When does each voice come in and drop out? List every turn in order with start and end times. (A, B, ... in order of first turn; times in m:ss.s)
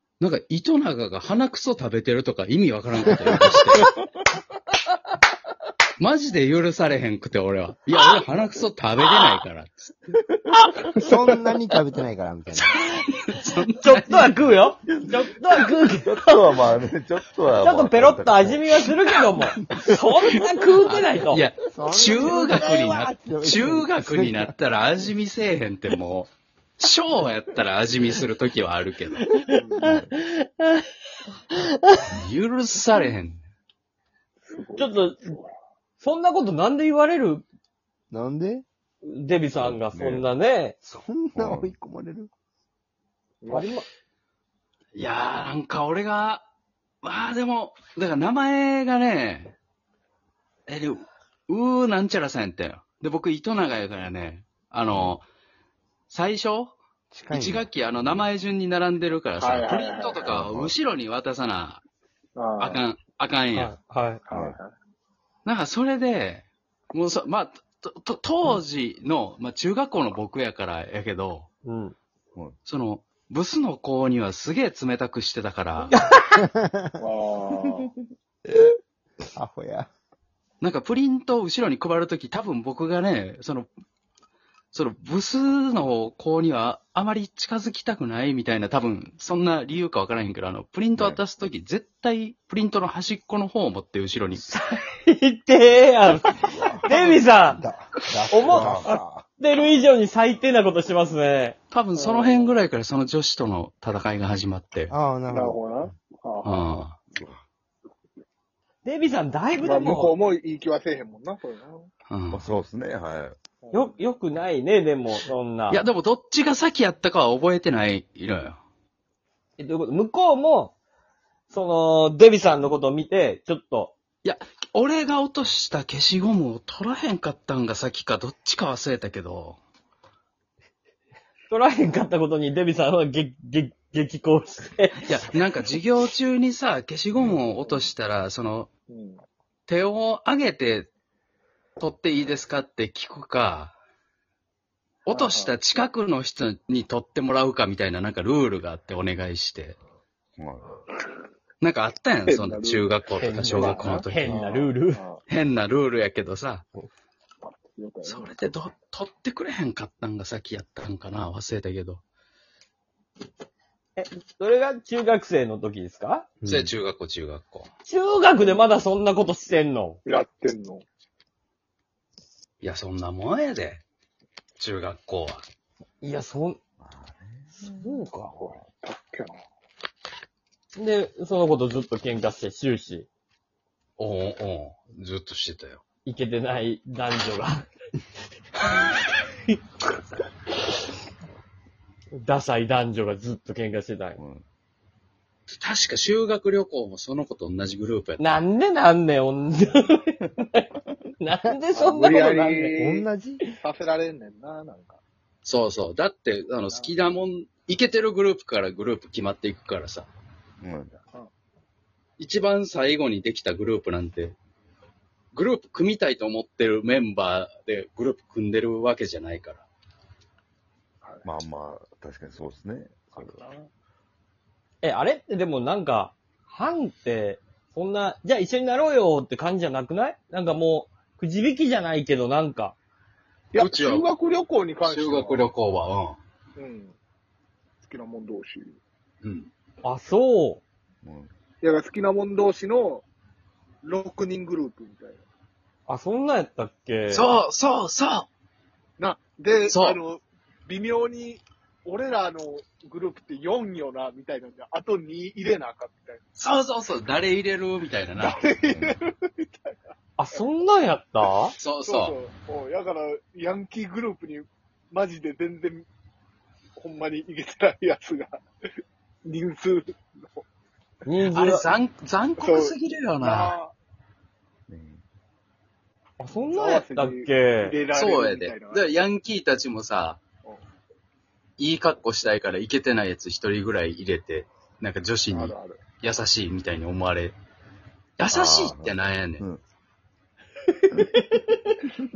0:00.2-0:04.0 A
0:03.3-0:03.8 B
0:06.0-0:10.2 A
0:11.0-0:12.8 B
0:12.6-0:14.4 A
0:13.6-0:16.7 C
0:14.9-0:18.8 D
0:17.6-0:21.4 C
0:20.8-0:29.3 A
0:21.7-0:24.5 B
0:29.3-0:30.8 C
0:29.8-0:30.2 D
0:32.1-0:33.4 A
0:34.4-0:35.5 E
0:34.8-0:35.3 C
0:36.0-0:37.4 C
0:38.1-0:38.6 B
0:39.0-0:40.8 C
0:39.6-0:40.3 D
0:40.8-0:42.3 B
0:41.4-0:41.7 D
0:43.4-0:43.8 E
0:43.5-0:43.8 C
0:45.0-0:46.4 A
0:47.0-0:49.6 A
0:50.7-0:55.3 A
0:56.1-0:56.8 A
0:57.1-0:58.2 B
0:57.3-1:01.8 A
0:59.4-1:00.4 E
1:00.3-1:00.7 D
1:02.4-1:02.8 E
1:02.6-1:03.7 A
1:03.5-1:04.2 C
1:04.3-1:04.7 E
1:05.4-1:11.5 A
1:11.6-1:12.0 C
1:12.6-1:16.0 A
1:16.0-1:16.2 C
1:16.4-1:16.9 B
1:17.0-1:17.9 E
1:19.4-1:19.9 B
1:20.6-1:23.7 A
1:24.7-1:34.4 A
1:31.0-1:31.2 D
1:34.7-1:37.6 C
1:36.3-1:36.8 D
1:36.9-1:37.2 A
1:37.6-1:39.2 B
1:38.3-1:41.6 C
1:38.4-1:38.9 D
1:41.7-1:44.9 A
1:42.0-1:42.6 E
1:44.9-1:45.6 B
1:45.3-1:46.8 E
1:46.4-1:47.0 A
1:47.1-1:47.4 D
1:48.8-1:50.1 C
1:49.6-1:51.9 E
1:52.1-1:52.5 A
1:52.3-1:53.4 D
1:53.6-1:54.0 E
1:53.7-1:55.8 C
1:55.7-1:58.6 A
1:59.6-2:00.7 C
2:01.5-2:04.0 C
2:04.2-2:09.6 A
2:11.5-2:15.2 C
2:15.0-2:18.7 A
2:18.9-2:19.2 E
2:19.7-2:20.9 A
2:21.8-2:23.8 A
2:25.1-2:29.8 A
2:25.1-2:25.6 E
2:30.4-2:30.8 D
2:31.6-2:34.5 A
2:32.2-2:35.2 E
2:33.2-2:35.0 C
2:35.3-2:36.7 A
2:37.4-2:38.3 E
2:38.0-2:42.0 A
2:44.0-2:46.3 C
2:46.4-2:47.7 A
2:47.8-2:50.0 C
2:50.1-2:50.8 E
2:52.6-2:53.8 A
2:54.6-2:55.4 A
2:56.0-2:56.6 C
2:56.8-2:57.6 D
2:57.6-2:58.5 C
2:58.4-2:59.4 E
3:00.8-3:03.1 C
3:04.0-3:05.8 A
3:06.0-3:07.7 C
3:12.2-3:14.2 C
3:14.2-3:14.4 D
3:15.6-3:18.4 A
3:18.2-3:20.6 C
3:21.2-3:22.8 C
3:21.7-3:25.0 E
3:22.8-3:23.4 B
3:25.4-3:30.1 A
3:26.7-3:27.0 E
3:30.6-3:31.0 D
3:32.2-3:34.4 A
3:35.3-3:39.7 A
3:41.2-3:43.4 D
3:43.1-3:43.7 E
3:44.8-3:52.8 C
3:53.5-3:55.5 E
3:53.6-3:54.1 A
3:54.8-3:56.2 A
3:56.6-3:57.0 E
3:57.8-3:58.8 E
3:59.2-3:59.5 A
3:59.8-4:00.6 C
4:01.0-4:01.3 D
4:01.6-4:03.1 E
4:03.8-4:05.2 E
4:05.9-4:07.3 C
4:07.1-4:08.3 A
4:09.0-4:16.2 E
4:09.7-4:10.0 A
4:16.4-4:18.4 A
4:18.2-4:19.8 E
4:18.7-4:19.0 D
4:20.2-4:21.6 C
4:21.6-4:22.2 A
4:21.8-4:25.8 E
4:26.8-4:28.4 E
4:29.2-4:30.4 E
4:31.0-4:31.7 C
4:31.2-4:33.6 A
4:32.4-4:33.7 E
4:34.7-4:35.0 D
4:36.2-4:37.8 C
4:36.4-4:38.9 E
4:37.9-4:40.2 A
4:41.6-4:47.4 A
4:45.3-4:45.8 E
4:48.2-4:49.4 A
4:48.3-4:49.6 D
4:50.9-4:51.4 C